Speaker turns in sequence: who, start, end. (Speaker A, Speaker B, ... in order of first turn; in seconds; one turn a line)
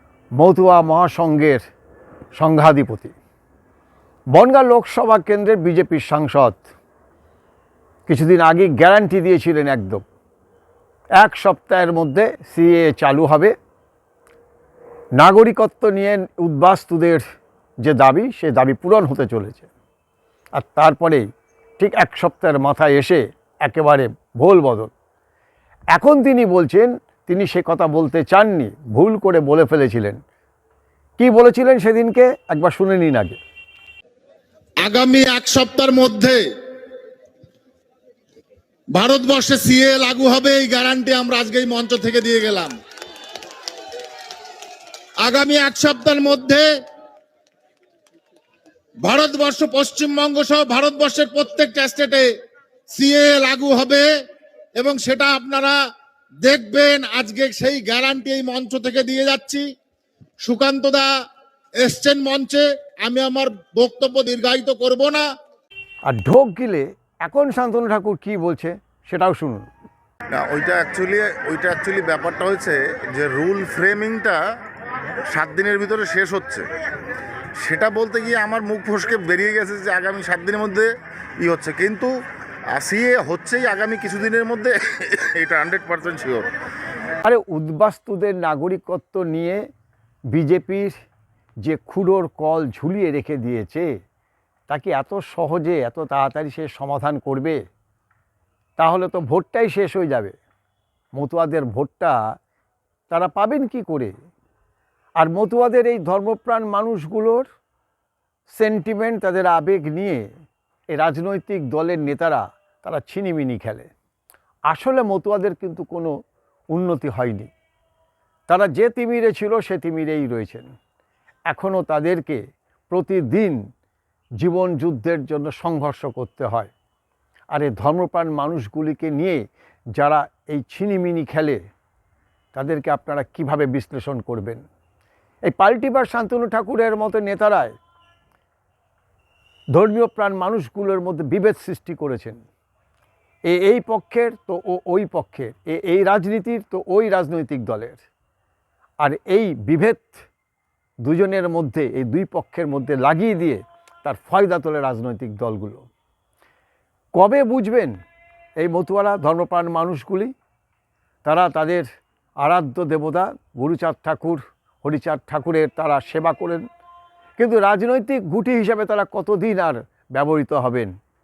Speaker A: 0.4-1.6
Speaker A: 2.4-3.1
Speaker A: 4.3-6.6
Speaker A: 8.1-10.0
Speaker A: 11.2-13.5
Speaker A: 15.2-17.2
Speaker A: 17.8-19.7
Speaker A: 20.5-21.2
Speaker A: 21.8-24.9
Speaker A: 25.9-30.2
Speaker A: 31.2-33.4
Speaker B: 34.9-36.4
Speaker B: 39.0-42.7
Speaker B: 45.2-46.7
Speaker B: 49.0-52.3
Speaker B: 52.9-54.1
Speaker B: 54.8-55.8
Speaker B: 56.5-59.6
Speaker B: 60.5-61.1
Speaker B: 61.9-62.5
Speaker C: 62.4-63.3
Speaker B: 63.2-65.2
Speaker A: 66.1-69.7
Speaker C: 70.3-74.4
Speaker C: 75.3-76.6
Speaker C: 77.6-80.9
Speaker C: 81.4-82.1
Speaker C: 82.7-86.5
Speaker A: 87.2-89.6
Speaker A: 90.3-90.9
Speaker A: 91.6-93.9
Speaker A: 94.7-97.6
Speaker A: 98.8-100.3
Speaker A: 101.2-102.2
Speaker A: 103.1-104.1
Speaker A: 105.2-107.5
Speaker A: 108.5-110.2
Speaker A: 110.9-113.9
Speaker A: 114.7-116.1
Speaker A: 116.7-117.5
Speaker A: 118.5-120.7
Speaker A: 121.5-122.4
Speaker A: 122.9-123.6
Speaker A: 124.4-126.7
Speaker A: 127.5-129.4
Speaker A: 130.0-131.6
Speaker A: 132.6-134.6
Speaker A: 135.5-137.7
Speaker A: 139.7-142.4
Speaker A: 143.5-148.0
Speaker A: 149.0-150.2
Speaker A: 151.0-155.8
Speaker A: 157.2-157.9
Speaker A: 158.6-160.3
Speaker A: 161.2-161.8
Speaker A: 162.4-166.6
Speaker A: 167.4-170.9